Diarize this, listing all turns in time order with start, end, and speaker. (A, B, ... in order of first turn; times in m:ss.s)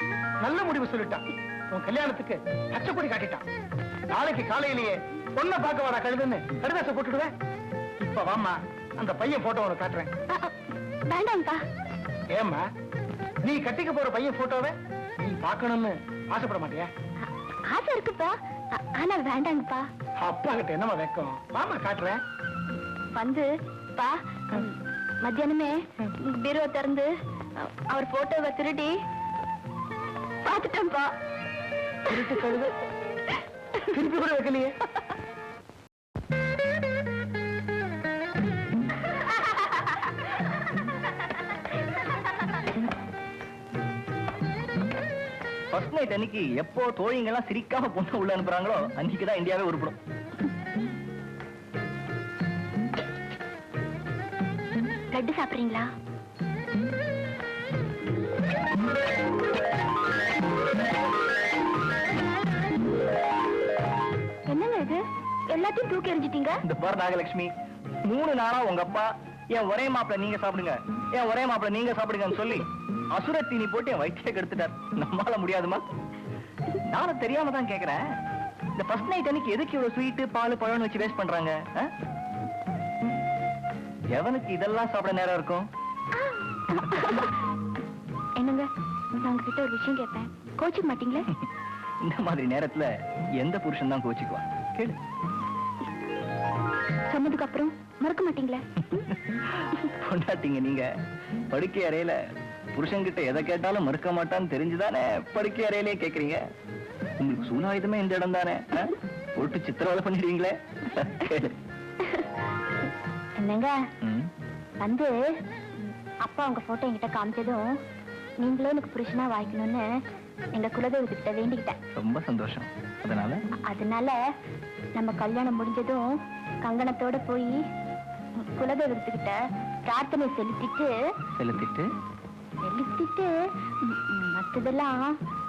0:00.4-0:03.4 A
0:04.1-0:07.3 A
0:08.0-0:10.1 A
0:11.1-0:11.6 B
0:12.3-0:12.6 A
0:13.4-0:16.9 A
0:17.2-0:19.9 B
0:20.2-0:22.2 A
0:23.2-0:28.9 B
0:30.4-0:31.1 B
0:32.1-0:32.4 B
0:32.1-0:32.7 A
0:33.9-0:34.8 A
0:45.7-0:50.0 C
0:55.1-0:55.9 B
1:04.5-1:06.6 B
1:06.6-1:07.5 C
1:08.1-1:15.8 C
1:16.9-1:18.0 C
1:18.8-1:21.9 C
1:24.2-1:25.7 C
1:26.2-1:27.4 B
1:28.4-1:28.7 B
1:29.2-1:31.3 B
1:32.1-1:35.0 C
1:37.1-1:39.0 B
1:38.9-1:40.9 C
1:41.5-1:42.2 C
1:42.8-1:46.4 C
1:47.2-1:51.6 C
1:53.4-1:53.8 B
1:54.0-1:54.3 C
1:54.8-1:55.2 B
1:55.8-1:57.7 B
1:58.4-1:59.9 B
2:00.5-2:01.8 B
2:02.0-2:03.4 C
2:03.7-2:04.2 B
2:05.0-2:06.1 B
2:06.6-2:07.6 B
2:08.4-2:10.9 B
2:11.4-2:11.9 C
2:12.6-2:15.2 B